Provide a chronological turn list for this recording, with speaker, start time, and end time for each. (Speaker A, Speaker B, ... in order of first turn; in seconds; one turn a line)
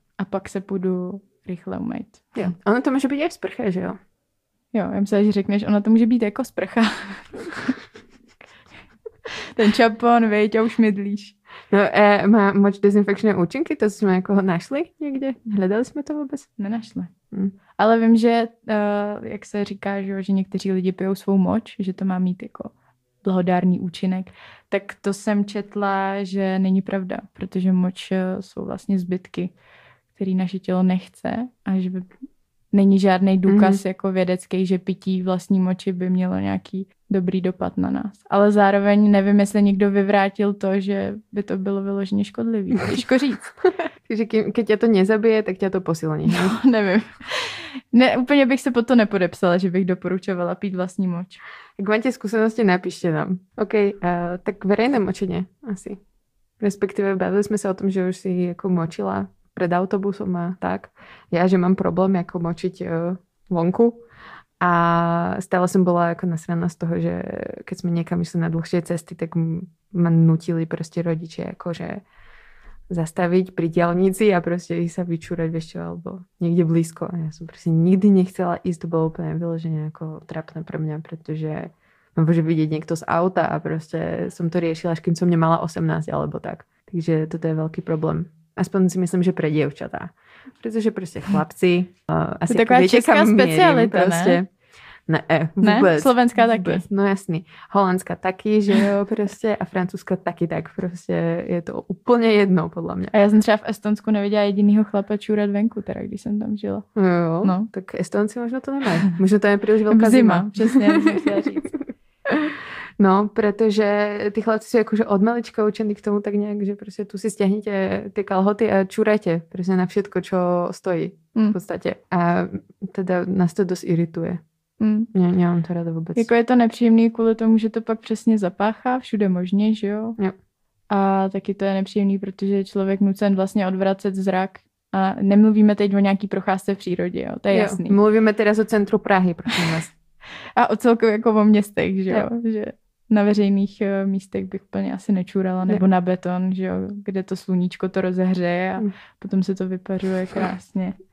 Speaker A: 0.2-2.5
Speaker B: 2.4-4.0
Speaker A: 4.7-7.7
Speaker A: 9.5-11.4
Speaker B: 11.7-16.5
Speaker A: 16.6-17.1
Speaker A: 17.8-22.7
Speaker A: 23.2-29.5
Speaker A: 30.1-32.1
Speaker A: 32.7-43.4
Speaker B: 33.5-33.8
Speaker B: 43.6-46.6
Speaker A: 46.3-51.4
Speaker B: 51.8-56.0
Speaker B: 56.6-64.0
Speaker B: 64.6-72.0
Speaker B: 72.9-94.5
Speaker A: 92.5-94.4
Speaker B: 95.1-103.1
Speaker A: 95.6-96.8
Speaker A: 103.1-106.9
Speaker B: 107.0-111.8
Speaker A: 107.4-107.7
Speaker A: 109.9-111.7
Speaker B: 112.3-124.4
Speaker A: 124.8-125.1
Speaker B: 125.1-126.3
Speaker A: 126.2-130.2
Speaker A: 130.9-138.0
Speaker B: 137.5-139.9
Speaker A: 140.6-151.0